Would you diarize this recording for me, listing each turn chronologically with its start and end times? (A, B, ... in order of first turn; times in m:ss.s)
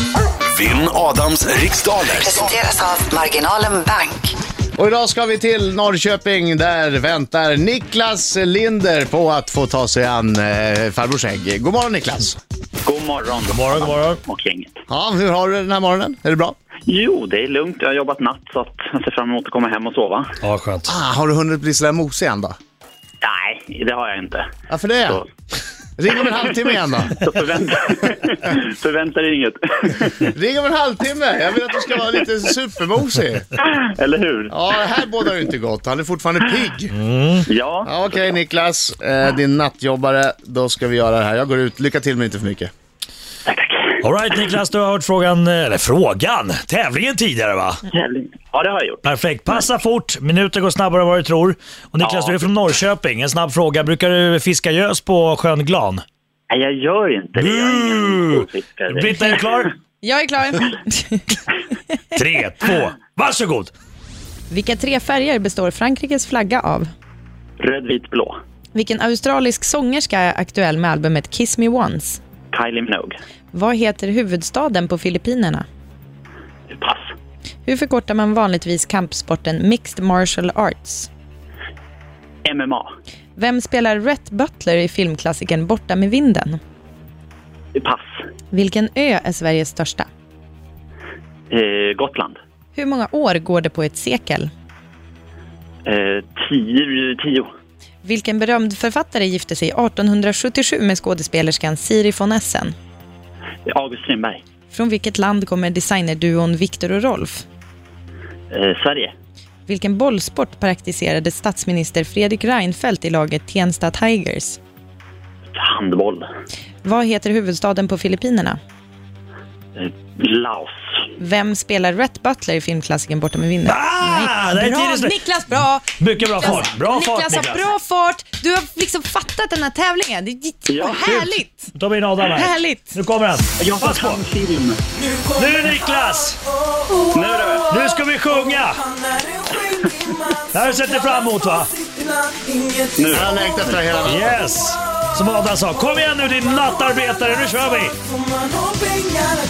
0:00.5-0:02.5 A
0:02.1-0:04.3 B
0:04.8-0:12.4 C
0:12.8-0:14.7 D
0:13.5-0:14.2 E
0:14.9-0:16.5 C
0:16.9-0:20.3 D
0:20.4-0:20.9 E
0:20.8-0:22.5 C
0:23.2-0:24.4 D
0:24.7-0:25.2 C
0:26.0-0:27.2 C
0:26.4-0:30.3 D
0:30.3-0:33.5 C
0:33.6-0:35.0 D
0:34.5-0:36.9 C
0:36.9-0:37.5 E
0:37.5-0:37.9 D
0:37.8-0:42.7 C
0:43.4-0:44.0 D
0:44.0-0:47.8 E
0:47.9-0:49.0 D
0:49.0-0:56.0 E
0:52.0-0:52.5 D
0:56.5-0:59.3 D
0:57.4-0:59.7 E
1:00.0-1:01.4 F
1:02.2-1:03.7 E
1:04.5-1:06.9 F
1:07.6-1:08.4 D
1:08.7-1:12.2 F
1:12.5-1:13.2 D
1:13.5-1:15.6 F
1:16.7-1:17.1 D
1:17.6-1:21.1 F
1:22.5-1:22.9 D
1:23.4-1:26.6 F
1:27.8-1:28.2 D
1:28.5-1:30.1 F
1:31.5-1:32.4 D
1:32.7-1:34.5 F
1:35.8-1:37.5 D
1:38.0-1:42.7 F
1:43.7-1:44.4 D
1:44.7-1:47.4 F
1:48.5-1:49.1 D
1:49.7-1:54.6 F
1:55.5-1:56.3 D
1:56.8-1:58.6 F
1:59.8-2:00.8 D
2:01.2-2:11.7 F
2:03.7-2:05.2 E
2:06.0-2:07.6 E
2:10.7-2:11.0 D
2:11.0-2:14.2 E
2:12.2-2:13.0 F
2:13.6-2:14.8 D
2:15.3-2:16.4 E
2:16.9-2:17.9 F
2:17.1-2:17.7 D
2:17.7-2:18.9 E
2:20.5-2:21.7 E
2:22.9-2:23.9 D
2:23.1-2:24.4 C
2:24.0-2:28.0 E